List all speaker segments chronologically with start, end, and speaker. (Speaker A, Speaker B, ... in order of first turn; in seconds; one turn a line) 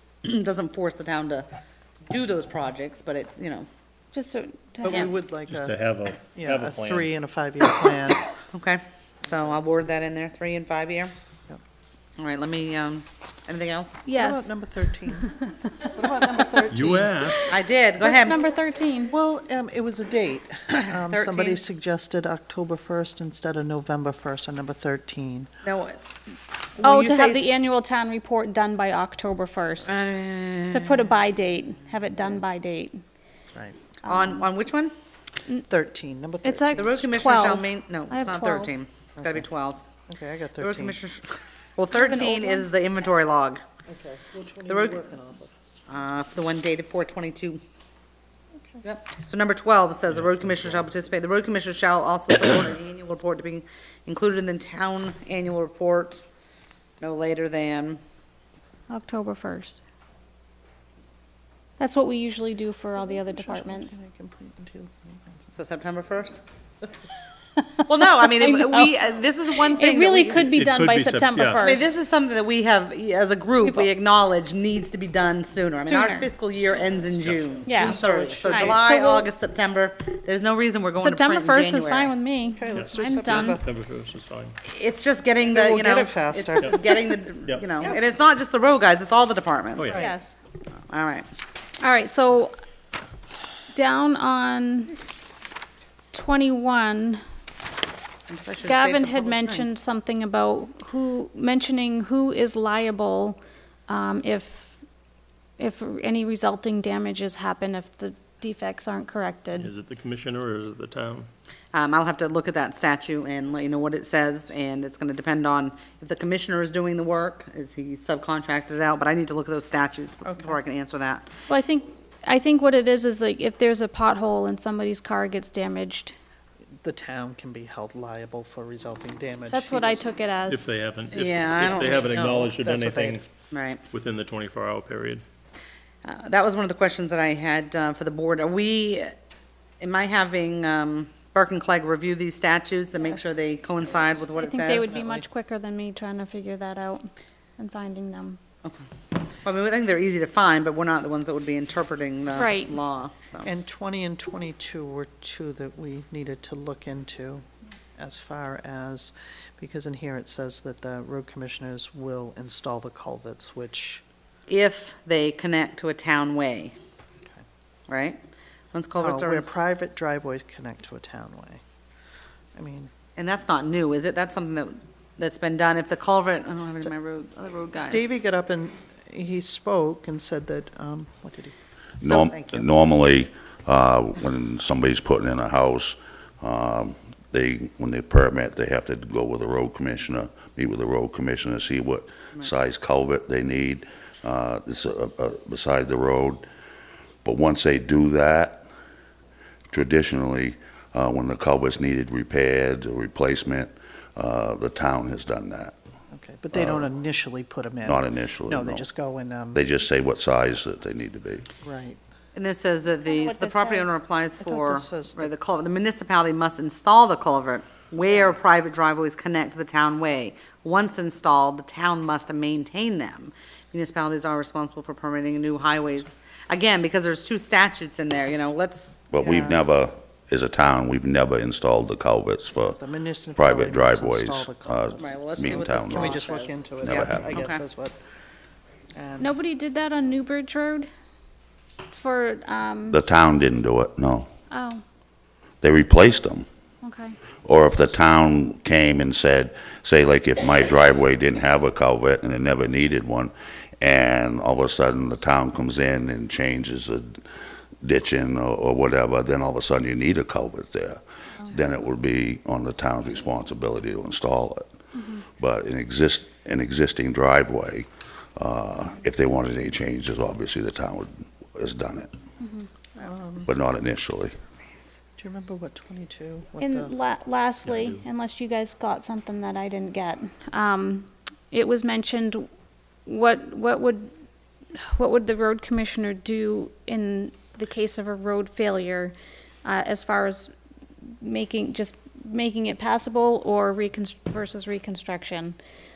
Speaker A: 0.2-1.5
Speaker A: 2.1-3.7
Speaker B: 4.1-5.1
Speaker C: 4.8-8.2
Speaker D: 5.5-7.1
Speaker A: 8.5-11.1
Speaker A: 12.2-14.0
Speaker B: 14.1-14.6
Speaker C: 14.2-15.3
Speaker B: 15.2-15.5
Speaker C: 15.8-17.6
Speaker D: 16.7-17.5
Speaker A: 17.5-18.4
Speaker B: 18.0-19.1
Speaker C: 19.1-25.5
Speaker A: 20.7-21.6
Speaker A: 25.6-26.0
Speaker A: 26.8-27.6
Speaker B: 26.8-30.0
Speaker A: 29.9-31.0
Speaker B: 30.7-33.0
Speaker B: 34.0-34.5
Speaker A: 34.0-34.9
Speaker C: 35.7-37.1
Speaker B: 36.4-38.7
Speaker A: 36.8-39.8
Speaker C: 39.2-39.4
Speaker C: 40.1-41.0
Speaker A: 40.6-43.6
Speaker B: 41.9-42.7
Speaker C: 43.9-45.5
Speaker A: 44.7-45.0
Speaker A: 45.9-47.6
Speaker A: 48.8-56.2
Speaker D: 50.1-50.6
Speaker A: 57.0-58.0
Speaker B: 58.9-59.8
Speaker B: 61.8-63.9
Speaker C: 63.0-65.5
Speaker A: 65.5-66.4
Speaker A: 67.9-70.4
Speaker B: 68.0-69.0
Speaker B: 69.7-71.9
Speaker D: 70.3-71.6
Speaker A: 71.5-82.1
Speaker B: 73.6-73.9
Speaker B: 75.9-76.3
Speaker D: 77.1-77.9
Speaker B: 77.7-79.3
Speaker C: 77.8-78.8
Speaker B: 81.0-83.6
Speaker C: 82.5-83.6
Speaker D: 82.7-84.6
Speaker A: 84.7-90.0
Speaker C: 85.4-86.9
Speaker D: 86.6-86.9
Speaker D: 89.8-90.0
Speaker C: 89.9-90.2
Speaker B: 89.9-90.3
Speaker A: 90.9-91.3
Speaker B: 91.8-92.5
Speaker B: 93.7-95.0
Speaker B: 96.1-97.2
Speaker A: 98.3-99.7
Speaker B: 98.6-104.8
Speaker B: 105.6-109.7
Speaker D: 109.5-111.3
Speaker A: 111.7-121.3
Speaker C: 120.2-120.6
Speaker B: 121.5-126.2
Speaker C: 126.8-130.1
Speaker B: 129.5-130.6
Speaker D: 130.5-133.2
Speaker A: 131.1-132.1
Speaker C: 131.8-133.2
Speaker A: 133.5-133.8
Speaker D: 133.9-135.2
Speaker A: 136.1-139.1
Speaker A: 139.8-145.0
Speaker B: 144.3-148.4
Speaker C: 144.6-145.3
Speaker A: 149.4-153.5
Speaker B: 152.3-152.7
Speaker C: 153.4-164.0
Speaker A: 164.5-166.7
Speaker A: 167.9-168.2
Speaker A: 168.7-169.6
Speaker C: 169.0-171.6
Speaker C: 172.6-172.9
Speaker A: 173.2-178.1
Speaker C: 177.8-181.6
Speaker E: 182.0-196.4
Speaker A: 182.0-182.6
Speaker E: 197.2-198.7
Speaker E: 199.7-205.8
Speaker C: 206.1-209.6
Speaker E: 206.5-206.9
Speaker E: 207.9-208.9
Speaker E: 209.5-211.5
Speaker C: 211.6-212.0
Speaker A: 212.3-229.0
Speaker B: 213.0-214.0
Speaker C: 214.4-215.3
Speaker E: 229.1-232.8
Speaker C: 229.2-229.6
Speaker C: 232.7-238.0
Speaker E: 233.4-236.2
Speaker A: 235.0-237.6
Speaker E: 236.8-237.3
Speaker C: 239.0-239.3
Speaker B: 239.2-240.9
Speaker B: 241.9-243.0
Speaker E: 242.9-244.3
Speaker B: 244.5-244.8
Speaker E: 245.6-246.4
Speaker B: 246.8-247.2
Speaker E: 247.4-257.2
Speaker E: 257.8-264.6
Speaker B: 264.9-265.2
Speaker E: 265.4-272.1
Speaker B: 272.4-272.7
Speaker C: 273.0-273.5
Speaker E: 273.5-274.3
Speaker C: 275.2-276.9
Speaker B: 276.6-282.5
Speaker D: 277.6-278.0
Speaker B: 283.1-284.1
Speaker B: 284.8-290.5
Speaker B: 291.2-295.6